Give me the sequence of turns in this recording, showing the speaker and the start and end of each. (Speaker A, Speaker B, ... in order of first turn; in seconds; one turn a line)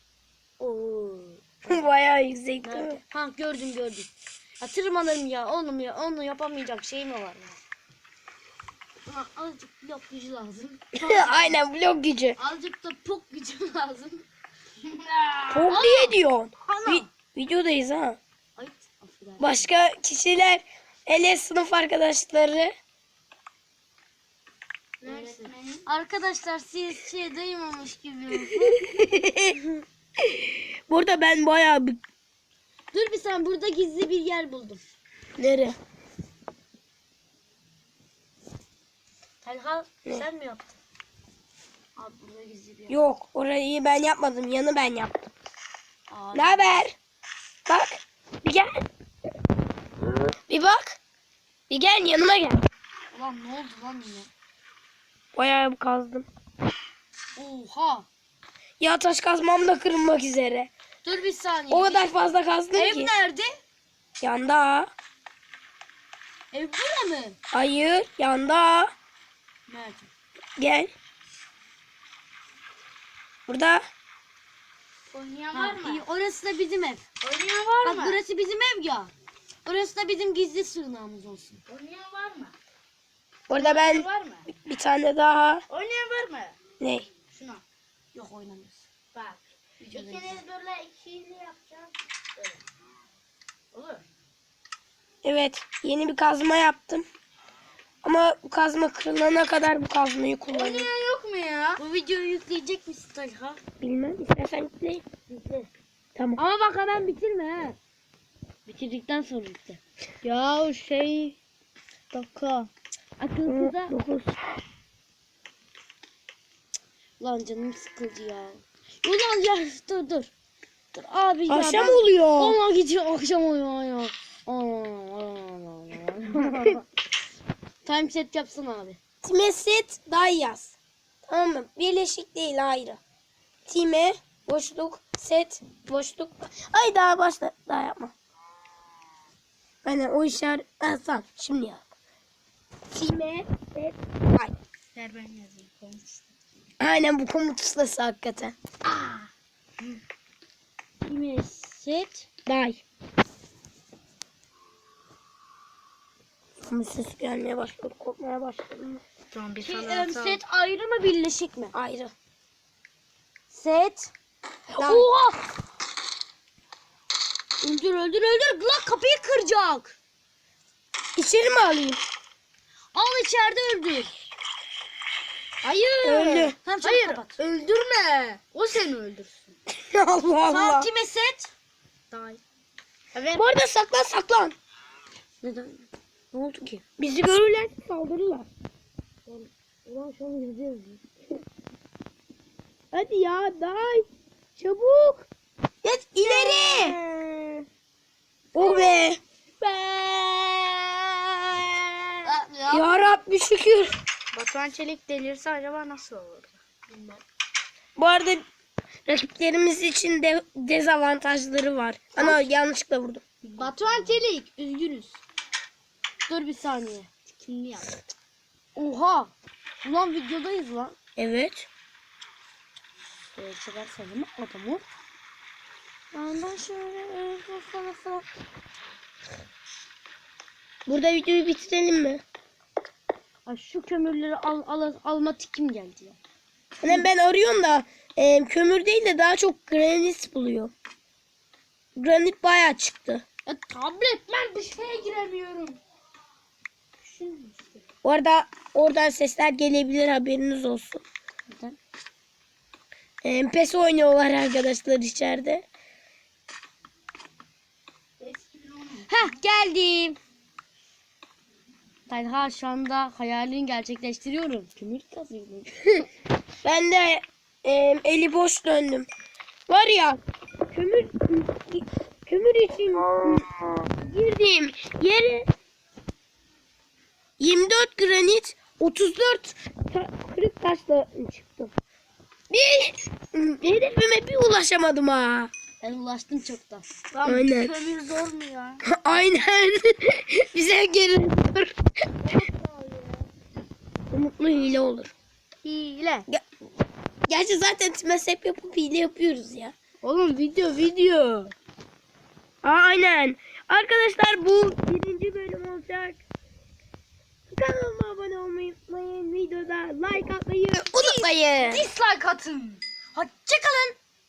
Speaker A: 0.6-1.9
Speaker B: 1.7-3.0
Speaker A: 2.6-7.6
Speaker A: 9.1-11.6
Speaker B: 11.0-12.4
Speaker A: 12.4-14.2
Speaker C: 14.8-15.8
Speaker B: 15.5-18.2
Speaker A: 15.7-17.1
Speaker A: 18.6-19.7
Speaker B: 19.4-22.7
Speaker C: 25.0-25.9
Speaker A: 25.0-28.9
Speaker B: 28.9-29.6
Speaker B: 30.2-32.0
Speaker A: 32.9-34.8
Speaker B: 35.4-35.8
Speaker A: 39.4-40.8
Speaker A: 42.0-43.0
Speaker B: 42.9-45.1
Speaker A: 46.1-46.8
Speaker B: 46.3-47.0
Speaker B: 47.7-48.8
Speaker B: 50.2-51.0
Speaker B: 51.7-52.7
Speaker A: 53.1-54.3
Speaker B: 55.4-56.3
Speaker A: 57.4-58.1
Speaker B: 58.8-60.7
Speaker A: 61.0-62.1
Speaker B: 61.7-63.1
Speaker A: 62.7-63.6
Speaker B: 64.2-64.9
Speaker A: 66.5-67.4
Speaker B: 67.5-68.9
Speaker A: 69.7-70.1
Speaker B: 70.6-70.9
Speaker B: 73.5-73.9
Speaker C: 75.1-76.0
Speaker A: 75.5-77.0
Speaker C: 77.2-78.2
Speaker A: 77.8-79.1
Speaker A: 79.7-81.6
Speaker C: 81.7-82.6
Speaker B: 83.5-85.6
Speaker C: 83.5-84.5
Speaker C: 85.7-86.6
Speaker B: 86.8-87.1
Speaker C: 87.3-87.6
Speaker A: 88.1-88.8
Speaker C: 89.1-92.6
Speaker A: 89.8-90.4
Speaker C: 93.7-94.0
Speaker B: 95.2-97.1
Speaker B: 98.0-100.9
Speaker C: 100.5-101.8
Speaker A: 101.8-103.6
Speaker B: 103.8-105.0
Speaker A: 105.3-105.7
Speaker B: 106.2-106.4
Speaker A: 106.4-107.8
Speaker A: 108.7-109.8
Speaker C: 110.2-111.4
Speaker C: 112.1-112.7
Speaker A: 113.2-114.0
Speaker B: 113.5-114.4
Speaker A: 117.2-120.3
Speaker A: 120.9-126.8
Speaker B: 121.5-122.6
Speaker A: 127.8-129.0
Speaker B: 129.2-133.0
Speaker B: 133.7-138.1
Speaker B: 139.8-141.8
Speaker B: 142.9-144.5
Speaker C: 144.9-146.3
Speaker B: 146.8-148.6
Speaker C: 148.8-150.0
Speaker A: 151.0-152.3
Speaker B: 152.5-152.8
Speaker B: 156.6-159.0
Speaker C: 159.3-160.4
Speaker A: 159.6-161.7
Speaker B: 161.7-162.1
Speaker A: 163.5-164.1
Speaker B: 164.7-165.1
Speaker A: 164.8-165.4
Speaker A: 167.6-169.9
Speaker B: 171.2-172.0
Speaker A: 172.9-174.1
Speaker C: 175.6-179.6
Speaker B: 176.1-176.6
Speaker A: 176.7-177.3
Speaker B: 179.7-180.9
Speaker A: 180.4-181.5
Speaker C: 182.1-182.4
Speaker C: 183.1-183.4
Speaker B: 183.3-184.6
Speaker A: 185.4-186.8
Speaker B: 187.0-188.5
Speaker A: 189.3-191.0
Speaker B: 192.9-195.3
Speaker C: 195.8-197.0
Speaker B: 196.2-197.7
Speaker B: 198.5-199.2
Speaker C: 198.6-199.1
Speaker B: 200.6-202.1
Speaker C: 202.2-202.8
Speaker B: 202.7-204.0
Speaker C: 204.3-207.1
Speaker B: 208.0-208.4
Speaker B: 209.1-213.2
Speaker C: 212.2-212.5
Speaker C: 213.4-215.2
Speaker A: 216.3-217.1
Speaker C: 217.3-217.9
Speaker A: 218.8-221.0
Speaker B: 221.2-221.7
Speaker A: 223.3-224.8
Speaker A: 226.1-228.3
Speaker B: 230.9-232.2
Speaker A: 233.5-236.2
Speaker B: 236.8-240.7
Speaker B: 242.0-243.2
Speaker C: 243.5-245.8
Speaker C: 247.0-247.8
Speaker B: 248.0-251.0
Speaker A: 251.5-251.8
Speaker B: 253.2-255.7
Speaker C: 258.2-259.2
Speaker A: 259.1-260.2
Speaker A: 262.1-265.8
Speaker B: 266.6-269.1
Speaker B: 269.7-270.2
Speaker B: 270.7-275.5
Speaker B: 277.4-281.7
Speaker B: 282.5-285.5
Speaker A: 285.8-286.9
Speaker C: 287.1-288.9
Speaker B: 287.2-287.7
Speaker B: 288.8-291.7
Speaker C: 292.2-293.3
Speaker B: 294.1-295.1
Speaker C: 295.6-296.3
Speaker B: 297.3-299.7
Speaker C: 300.0-301.5
Speaker B: 302.6-306.2
Speaker B: 307.5-311.9
Speaker C: 310.9-312.8
Speaker A: 313.1-314.0